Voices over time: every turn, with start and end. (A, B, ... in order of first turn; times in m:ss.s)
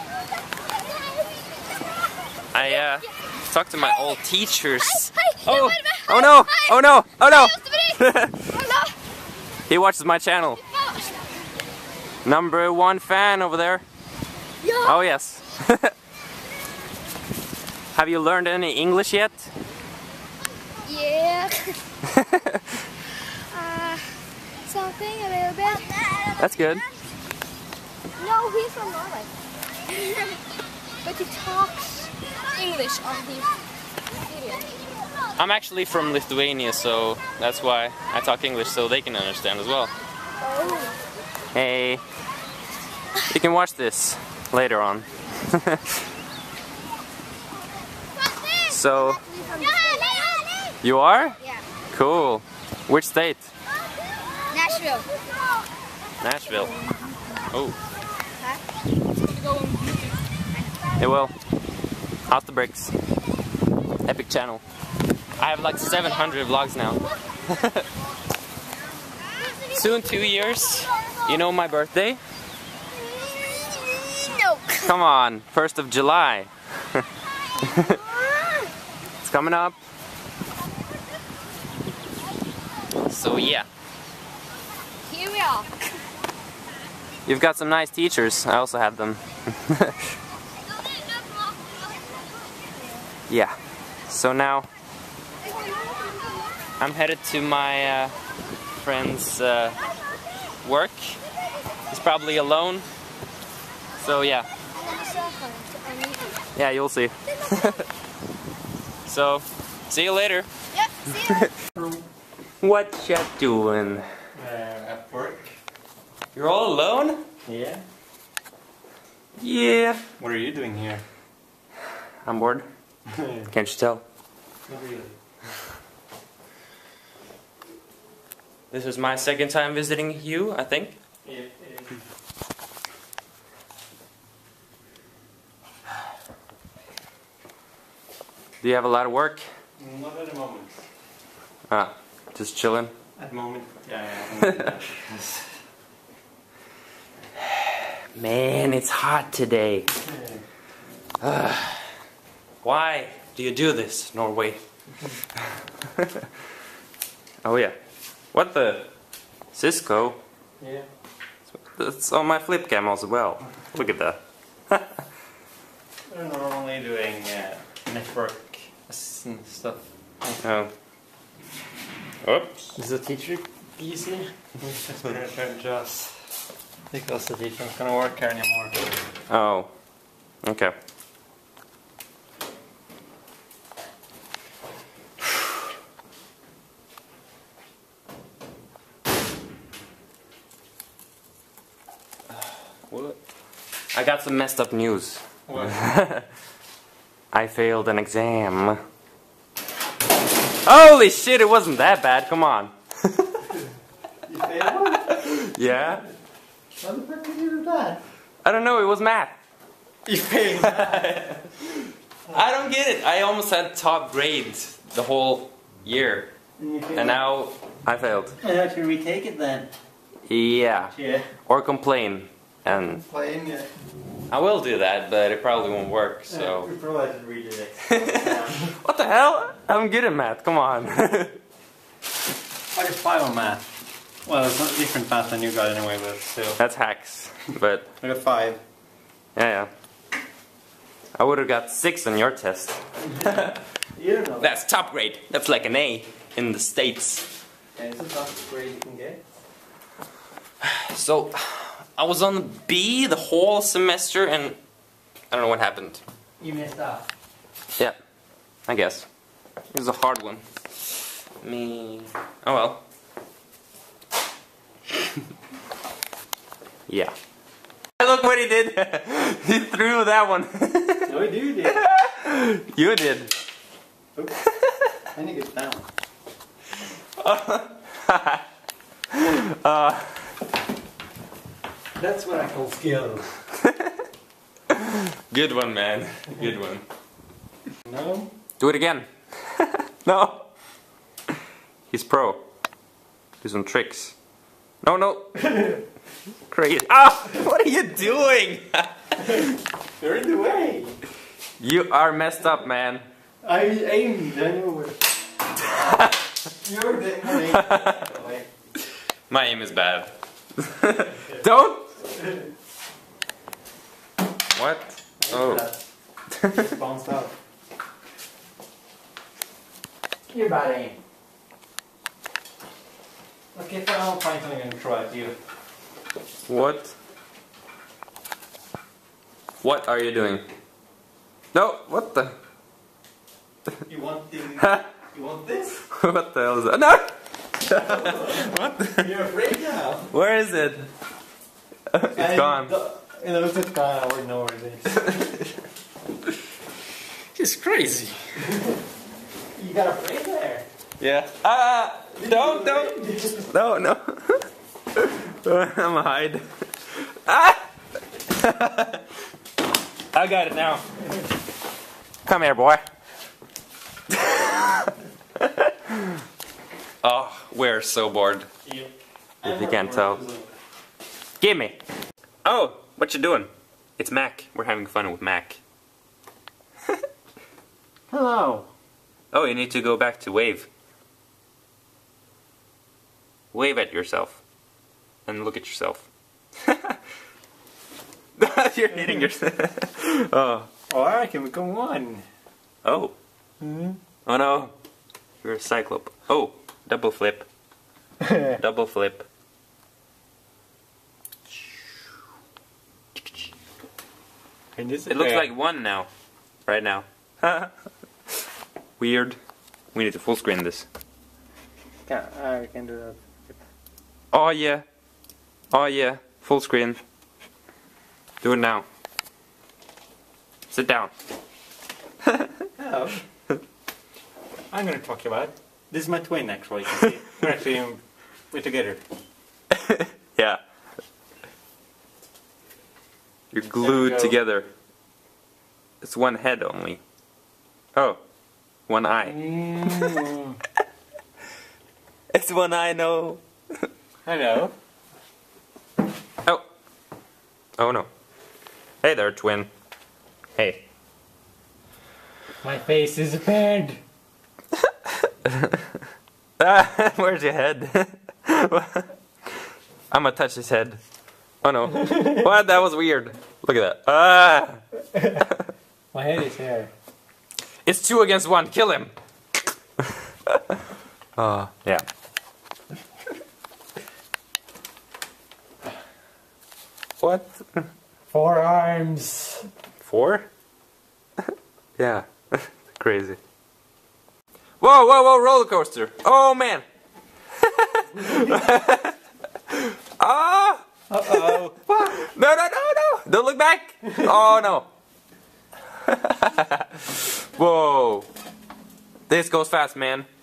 0:02.5-0:08.5 A
0:02.6-0:03.1 B
0:03.8-0:04.2 B
0:04.8-0:09.0 B
0:09.7-0:10.6 A
0:10.6-0:11.2 B
0:12.2-0:13.8 A
0:14.6-0:15.0 B
0:14.8-0:15.9 A
0:17.9-0:19.5 A
0:20.8-0:21.8 B
0:22.0-0:22.6 A
0:23.5-0:26.4 B
0:26.4-0:26.8 A
0:28.2-0:29.3 B
0:29.9-0:30.4 B
0:31.0-0:33.6 B
0:34.2-0:34.7 B
0:35.4-0:39.9 A
0:40.4-0:41.0 B
0:41.5-0:42.0 A
0:43.3-0:46.0 A
0:48.6-0:49.2 A
0:48.8-0:50.7 B
0:50.8-0:51.4 A
0:51.9-0:53.5 A
0:54.5-0:55.1 B
0:56.2-0:56.8 A
0:56.6-0:57.2 B
0:57.5-0:57.8 A
0:59.2-1:00.2 B
1:01.0-1:01.3 A
1:02.3-1:02.9 A
1:04.0-1:04.6 A
1:05.4-1:07.8 A
1:09.7-1:12.2 A
1:13.0-1:14.9 B
1:14.8-1:17.0 A
1:17.6-1:18.0 A
1:17.7-1:18.7 B
1:19.2-1:19.8 A
1:23.0-1:23.6 A
1:25.1-1:25.7 B
1:27.2-1:30.0 A
1:33.3-1:33.5 A
1:34.1-1:34.7 A
1:35.5-1:36.2 B
1:36.8-1:38.1 A
1:38.8-1:39.8 A
1:40.6-1:41.2 A
1:41.9-1:42.8 A
1:44.0-1:44.5 A
1:44.7-1:46.4 B
1:46.5-1:47.8 A
1:49.0-1:50.5 A
1:50.9-1:51.5 B
1:51.1-1:51.5 A
1:51.8-1:52.0 C
1:52.6-1:54.0 A
1:54.3-1:55.5 C
1:56.3-1:57.2 A
1:57.4-1:57.8 C
1:59.4-2:00.0 A
2:00.2-2:01.0 C
2:02.2-2:02.6 A
2:03.1-2:03.5 C
2:03.5-2:04.0 A
2:04.7-2:05.1 C
2:08.7-2:11.0 A
2:11.2-2:12.0 C
2:18.6-2:19.4 A
2:19.8-2:20.8 C
2:21.7-2:22.9 A
2:23.2-2:25.4 C
2:24.4-2:24.7 A
2:28.1-2:29.9 A
2:30.0-2:30.4 C
2:31.2-2:31.8 A
2:32.6-2:34.6 A
2:36.0-2:36.2 A
2:37.4-2:37.7 A
2:38.3-2:38.9 A
2:39.5-2:40.2 A
2:40.6-2:40.8 C
2:41.5-2:44.2 A
2:44.7-2:45.0 A
2:46.1-2:50.4 C
2:50.4-2:50.7 A
2:52.2-2:52.7 A
2:52.8-2:56.2 C
2:56.9-2:58.7 C
2:59.3-2:59.7 A
3:00.4-3:00.7 A
3:12.9-3:13.2 A
3:13.9-3:16.2 A
3:15.5-3:15.8 C
3:17.3-3:18.8 A
3:20.6-3:23.4 A
3:24.2-3:25.3 C
3:24.8-3:26.0 A
3:26.8-3:28.0 C
3:28.4-3:29.4 A
3:30.0-3:31.1 C
3:30.6-3:31.8 A
3:32.3-3:36.3 A
3:36.6-3:37.2 C
3:36.9-3:38.4 A
3:38.4-3:39.7 C
3:40.3-3:40.9 A
3:40.9-3:41.3 C
3:41.4-3:43.0 A
3:42.6-3:43.7 C
3:44.3-3:46.7 A
3:46.3-3:48.7 C
3:47.9-3:51.4 A
3:52.7-3:53.6 C
3:54.2-3:56.6 C
3:56.6-3:57.9 A
3:58.0-3:58.6 C
3:59.4-3:59.7 A
4:01.2-4:03.6 A
4:03.2-4:04.5 C
4:04.4-4:07.2 A
4:07.8-4:09.2 C
4:10.6-4:14.6 A
4:15.3-4:16.0 A
4:16.4-4:17.0 C
4:18.7-4:19.1 A
4:19.7-4:20.4 A
4:21.4-4:22.8 A
4:26.9-4:27.1 A
4:28.0-4:33.3 A
4:31.1-4:31.8 C
4:35.1-4:35.9 C
4:37.2-4:38.4 A
4:39.1-4:40.2 A
4:42.0-4:43.4 C
4:43.6-4:44.0 A
4:44.7-4:46.8 A
4:47.8-4:48.3 C
4:48.6-4:50.5 A
4:51.9-4:52.4 A
4:53.4-4:54.1 A
4:54.8-4:55.4 A
4:55.5-4:55.8 C
4:56.5-4:59.5 A
5:00.0-5:01.0 C
5:01.6-5:03.0 A
5:03.4-5:05.0 C
5:05.7-5:06.1 A
5:06.6-5:08.5 C
5:07.4-5:08.0 A
5:09.3-5:12.0 A
5:14.5-5:15.7 A
5:15.2-5:15.8 C
5:16.5-5:17.3 C
5:20.3-5:21.0 C
5:23.5-5:25.4 C
5:26.5-5:26.9 A
5:29.6-5:30.4 A
5:31.5-5:32.3 A
5:33.9-5:35.8 C
5:34.6-5:34.9 A
5:35.9-5:39.1 A
5:37.8-5:40.1 C
5:40.1-5:40.9 A
5:41.9-5:42.7 A
5:42.0-5:45.0 C
5:45.0-5:45.3 A
5:47.4-5:48.2 A
5:49.6-5:50.6 C
5:51.0-5:57.6 A
5:52.2-5:53.5 C
5:58.3-5:59.0 A
6:00.1-6:00.8 A
6:02.2-6:02.8 A
6:04.1-6:06.1 A
6:07.0-6:08.5 A
6:09.4-6:10.5 C
6:09.4-6:10.2 A
6:11.4-6:11.8 A
6:12.4-6:15.6 A
6:18.1-6:18.7 C
6:19.3-6:20.7 A
6:23.5-6:24.4 A
6:25.2-6:26.1 A
6:26.6-6:27.0 A
6:28.4-6:30.7 A
6:30.9-6:32.2 C
6:32.8-6:33.1 A
6:33.6-6:34.0 C
6:34.2-6:34.7 A
6:35.4-6:37.4 A
6:38.2-6:38.6 C
6:38.4-6:39.3 A
6:44.7-6:45.5 C
6:45.1-6:46.1 A
6:46.6-6:47.7 A
6:49.0-6:49.4 A
6:49.9-6:50.9 A
6:52.1-6:53.2 C
6:54.3-6:54.8 A
6:55.7-6:57.0 A
6:58.4-6:58.8 A
7:00.7-7:01.1 A
7:02.8-7:03.2 C
7:04.7-7:09.0 C
7:09.7-7:10.6 A
7:13.5-7:14.7 A
7:13.8-7:14.4 C
7:16.0-7:17.0 A
7:17.9-7:18.2 A
7:18.9-7:20.2 A
7:19.2-7:20.6 C
7:22.3-7:23.4 A
7:24.2-7:24.7 C
7:27.8-7:28.1 A
7:29.0-7:29.7 A
7:30.6-7:30.8 A
7:32.6-7:34.0 C
7:35.2-7:35.8 A
7:36.6-7:39.1 A
7:40.1-7:41.0 A
7:41.6-7:44.8 A
7:45.1-7:45.5 C
7:46.1-7:46.9 C
7:47.8-7:49.1 A
7:50.5-7:50.8 A
7:51.4-7:52.0 A
7:57.2-7:57.8 A
7:58.3-7:59.7 C
8:00.0-8:00.5 A
8:02.0-8:03.4 A
8:04.8-8:06.8 A
8:07.6-8:09.1 A
8:08.2-8:08.7 C
8:09.7-8:14.9 A
8:11.1-8:11.8 C
8:16.0-8:18.3 A
8:19.3-8:20.3 A